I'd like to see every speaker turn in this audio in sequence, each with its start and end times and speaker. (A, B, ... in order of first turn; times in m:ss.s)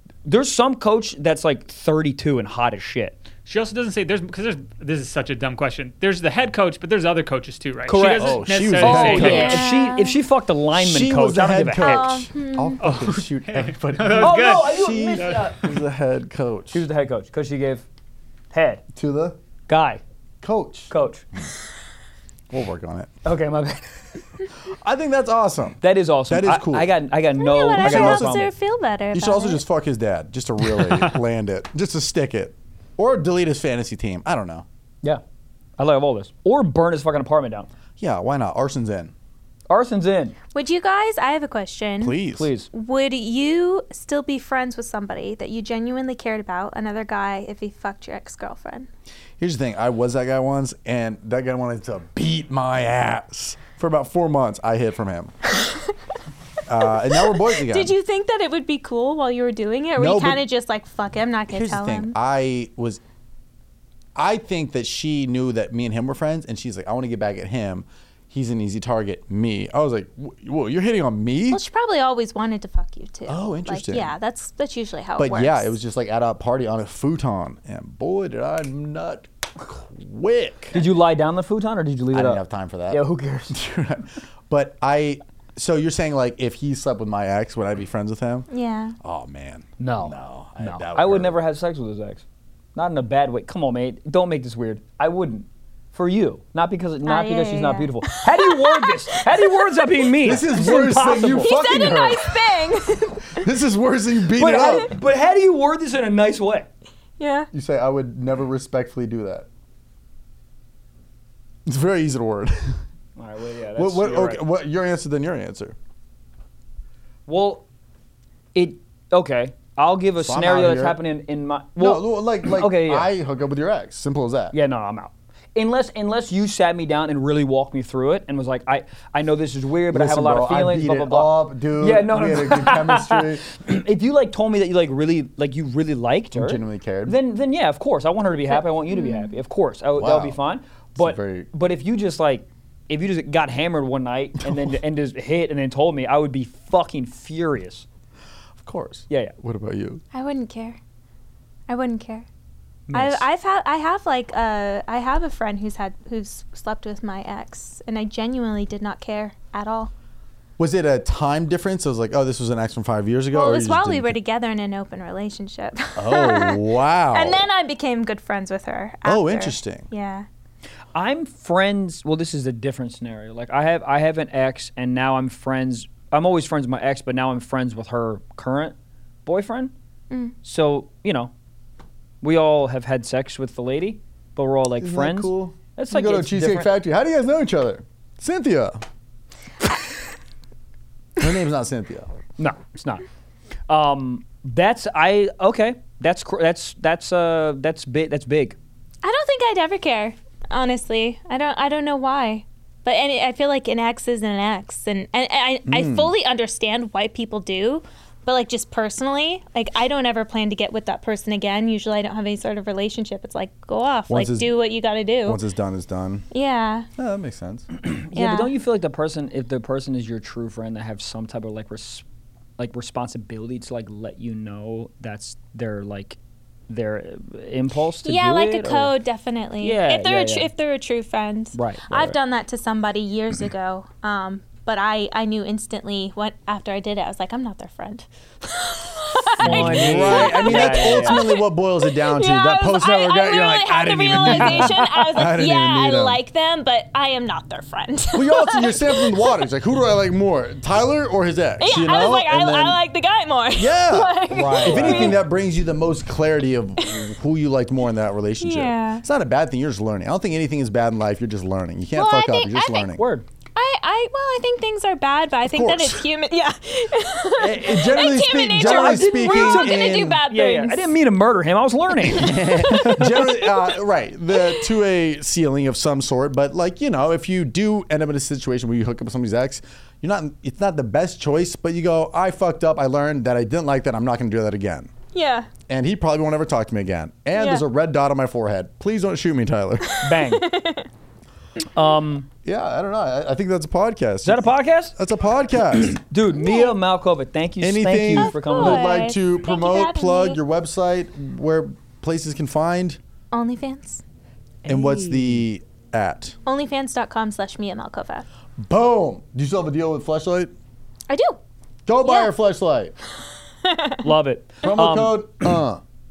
0:00.2-0:03.2 A
0:03.4-0:09.6 B
0:07.9-0:12.1 A
0:08.0-0:09.6 C
0:08.8-0:10.2 D
0:10.8-0:16.8 C
0:11.8-0:12.8 D
0:12.8-0:15.7 B
0:14.2-0:15.6 A
0:16.7-0:17.8 A
0:18.5-0:18.8 A
0:18.9-0:19.4 C
0:19.7-0:20.0 A
0:20.4-0:20.9 C
0:20.9-0:21.2 A
0:22.5-0:23.1 C
0:23.2-0:23.8 A
0:24.7-0:26.9 C
0:25.8-0:28.5 A
0:27.4-0:29.6 D
0:27.8-0:28.3 C
0:29.1-0:34.6 C
0:35.8-0:37.7 A
0:38.0-0:39.1 C
0:39.7-0:40.4 A
0:40.5-0:42.2 D
0:42.0-0:42.5 C
0:42.4-0:42.7 A
0:42.7-0:48.9 D
0:49.4-0:55.3 C
0:55.6-0:55.9 D
0:56.7-0:57.9 C
0:57.1-1:02.1 D
1:00.0-1:00.4 C
1:01.5-1:03.0 C
1:04.1-1:11.6 C
1:11.5-1:15.8 D
1:13.3-1:14.1 C
1:15.2-1:20.8 C
1:20.7-1:23.6 A
1:22.1-1:28.5 C
1:28.5-1:29.0 D
1:29.0-1:31.4 C
1:29.8-1:32.2 A
1:32.7-1:41.5 A
1:37.0-1:39.7 D
1:40.2-1:42.4 C
1:41.3-1:43.5 D
1:43.3-1:44.9 C
1:44.3-1:46.7 A
1:47.2-1:47.5 D
1:47.5-1:49.4 C
1:51.6-1:52.7 C
1:53.2-1:54.4 A
1:53.8-1:55.7 C
1:57.3-1:57.6 A
1:58.5-2:03.1 A
2:00.2-2:01.0 C
2:01.8-2:04.5 C
2:04.5-2:27.8 A
2:09.9-2:13.4 C
2:16.3-2:17.2 C
2:18.9-2:19.4 D
2:20.0-2:20.4 C
2:20.9-2:21.5 C
2:24.4-2:24.7 C
2:28.6-2:30.0 C
2:29.1-2:29.3 A
2:30.1-2:30.8 D
2:31.7-2:32.3 D
2:32.9-2:33.2 A
2:32.9-2:39.9 D
2:40.6-2:44.2 C
2:43.3-2:50.3 D
2:46.0-2:47.5 C
2:49.0-2:49.9 C
2:50.9-2:58.7 A
2:59.2-2:59.7 A
3:00.4-3:01.3 A
3:02.2-3:06.7 A
3:04.8-3:08.8 C
3:11.2-3:12.1 C
3:12.4-3:13.0 A
3:13.7-3:18.6 A
3:19.0-3:35.4 D
3:25.7-3:26.1 C
3:34.1-3:34.5 C
3:35.2-3:36.2 C
3:36.3-3:36.9 D
3:37.0-3:37.7 C
3:37.8-3:42.0 A
3:38.1-3:38.5 D
3:42.6-3:46.2 A
3:46.7-3:48.9 A
3:48.0-4:09.4 D
3:49.6-3:50.5 A
3:51.5-3:52.1 A
3:59.4-4:01.3 A
3:59.4-4:06.2 C
4:04.3-4:05.2 A
4:08.1-4:12.8 C
4:11.6-4:15.2 D
4:13.6-4:23.0 C
4:14.3-4:15.2 A
4:18.4-4:19.0 D
4:21.9-4:22.9 D
4:23.0-4:23.2 A
4:23.6-4:30.9 D
4:25.4-4:26.0 C
4:27.4-4:30.2 C
4:28.6-4:32.9 A
4:32.1-4:44.9 C
4:32.2-4:33.7 D
4:45.1-4:45.5 D
4:45.7-4:49.9 C
4:47.3-4:47.6 D
4:49.9-4:50.9 D
4:50.0-4:50.5 A
4:51.7-4:52.3 A
4:52.4-4:56.0 C
4:54.2-4:54.9 A
4:55.8-4:58.9 A
4:56.3-4:56.7 D
4:57.6-5:03.0 C
4:58.2-5:00.4 D
5:03.3-5:04.0 D
5:04.6-5:05.4 A
5:04.6-5:06.3 C
5:06.4-5:08.2 D
5:08.6-5:10.5 C
5:11.1-5:11.4 D
5:11.8-5:12.9 C
5:12.0-5:12.3 D
5:13.6-5:14.1 D
5:14.0-5:15.5 A
5:14.6-5:15.8 C